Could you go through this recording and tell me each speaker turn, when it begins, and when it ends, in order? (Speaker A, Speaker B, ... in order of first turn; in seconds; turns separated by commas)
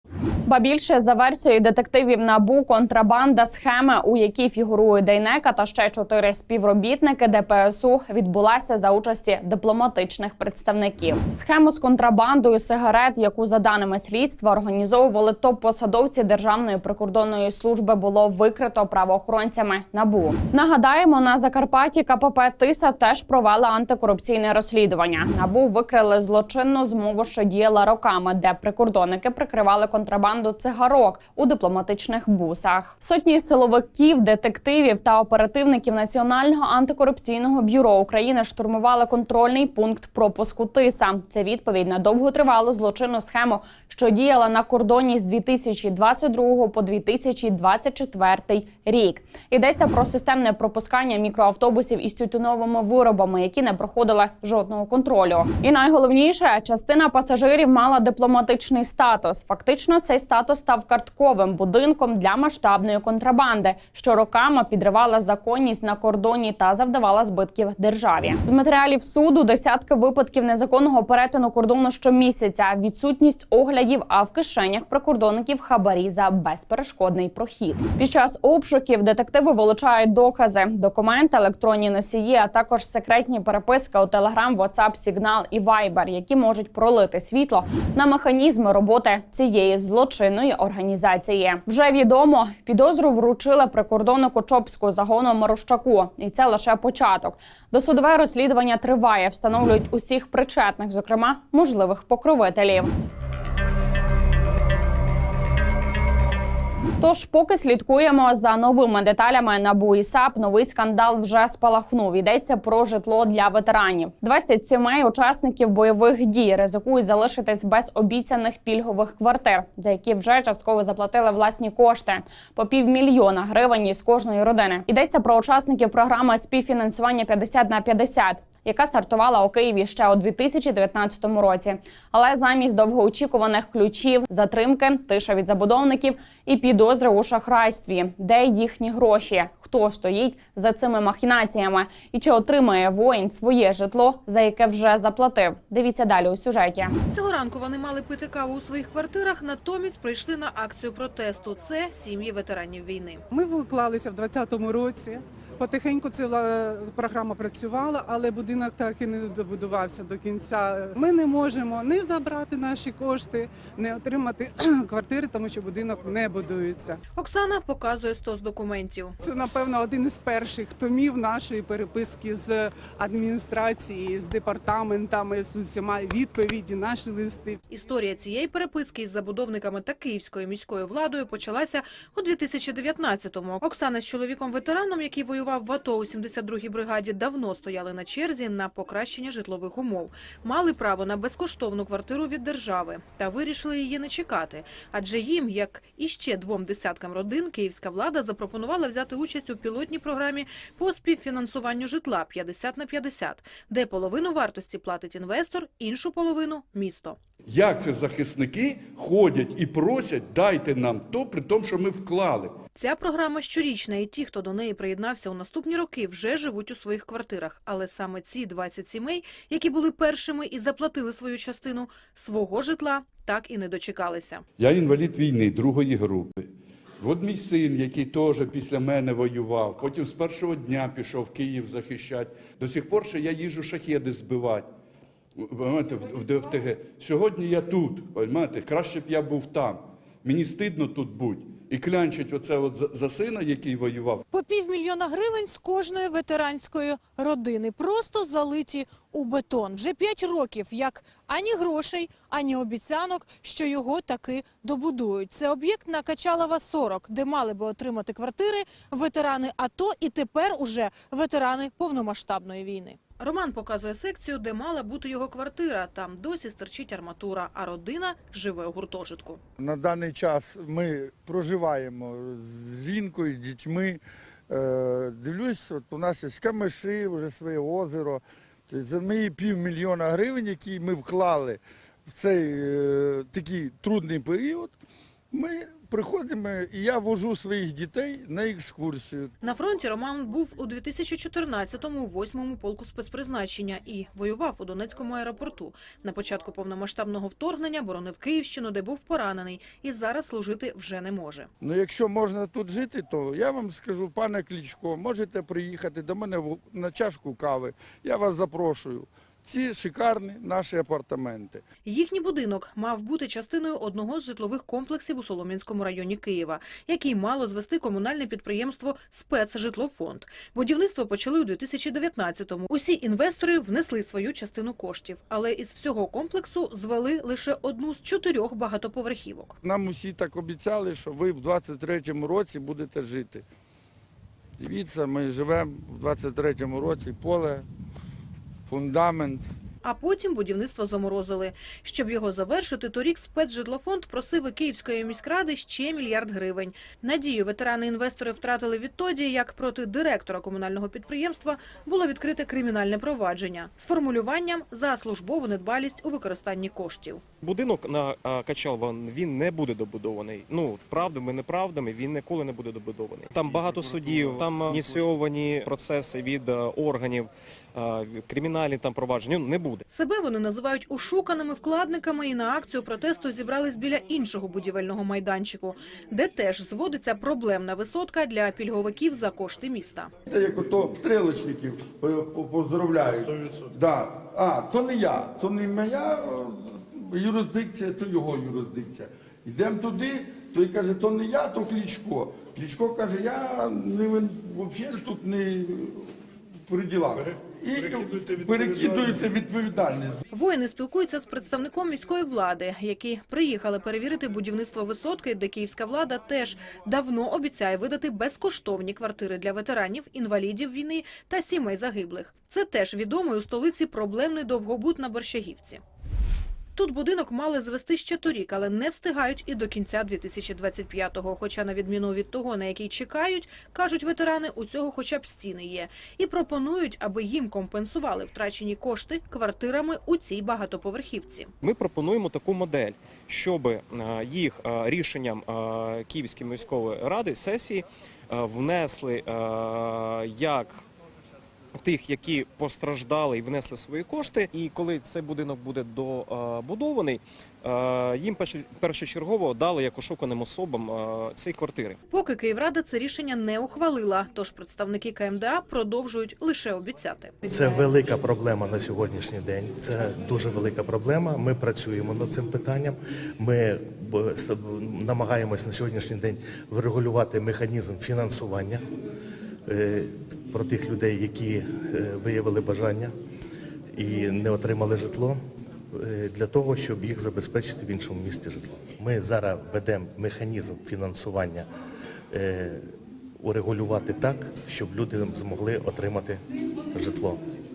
Speaker A: 0.5-102.9, Speaker A: 107.0-146.9, Speaker B: 147.1-153.2, Speaker C: 153.3-167.0, Speaker B: 167.2-169.2, Speaker C: 169.2-177.6, Speaker B: 177.7-207.2, Speaker D: 207.5-212.6, Speaker B: 212.8-224.4, Speaker D: 224.6-226.5, Speaker D: 227.0-234.7, Speaker D: 235.4-244.2, Speaker B: 244.3-269.4, Speaker E: 269.6-284.8, Speaker E: 285.3-289.3, Speaker B: 289.4-301.5, Speaker E: 301.6-311.6, Speaker B: 311.9-329.6, Speaker E: 329.6-333.5, Speaker E: 334.6-337.7, Speaker E: 338.7-339.5, Speaker B: 339.8-357.2, Speaker F: 357.4-369.8, Speaker B: 369.9-380.1, Speaker E: 380.3-396.1, Speaker E: 396.7-400.2, Speaker B: 400.3-415.8, Speaker B: 416.8-431.5, Speaker F: 431.6-440.8, Speaker F: 441.8-452.0, Speaker B: 452.1-457.4, Speaker G: 457.5-468.8, Speaker G: 469.7-473.1, Speaker G: 473.9-481.7, Speaker G: 482.3-486.4, Speaker G: 486.9-487.4